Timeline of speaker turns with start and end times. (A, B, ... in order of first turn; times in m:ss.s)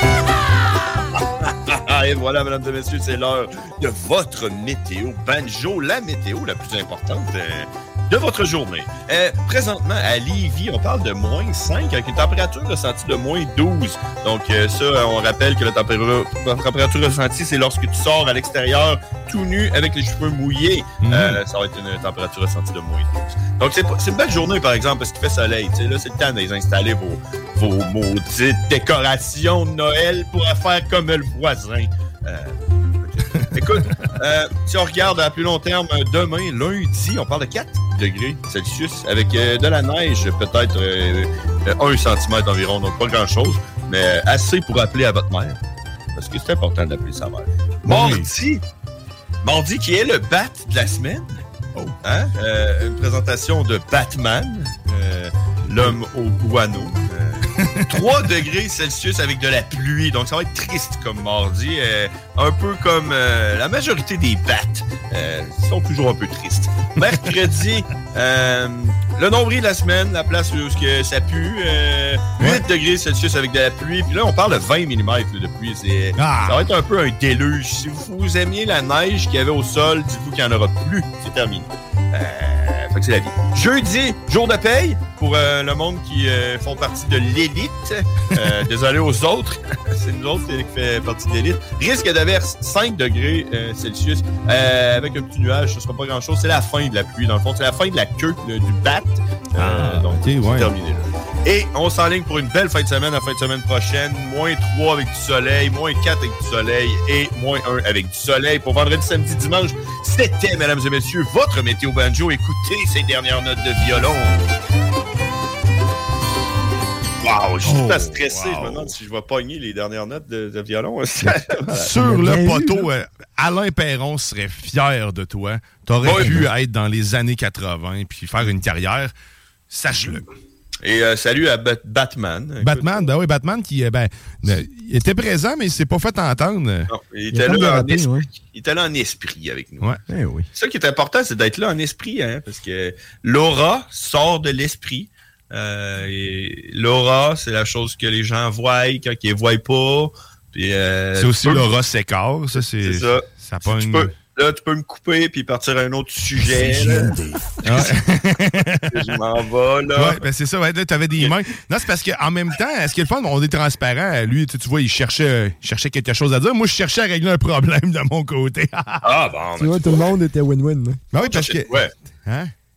0:01.7-0:32.6 A
0:21.0-0:21.4 B
0:33.5-0:45.6 A
0:46.2-0:48.6 A
0:47.9-0:48.3 B
0:49.4-0:51.4 A
0:52.0-1:54.5 A
1:16.2-1:16.6 B
1:39.6-1:40.7 B
1:57.2-2:02.0 A
1:57.6-1:58.9 B
2:01.2-2:02.9 C
2:01.8-2:09.1 B
2:06.0-2:06.5 A
2:06.2-2:06.4 C
2:09.7-2:10.2 B
2:10.8-2:13.1 A
2:12.6-2:16.9 B
2:16.9-2:20.0 A
2:17.3-2:18.3 C
2:20.1-2:20.5 C
2:20.5-2:31.7 A
2:31.2-2:34.1 B
2:32.5-2:38.0 A
2:36.6-2:37.3 C
2:37.7-2:39.0 B
2:38.9-2:40.2 A
2:39.9-2:49.1 B
2:49.0-2:50.0 A
2:49.6-2:51.0 C
2:51.1-2:51.7 B
2:51.2-2:51.9 A
2:52.3-2:52.5 B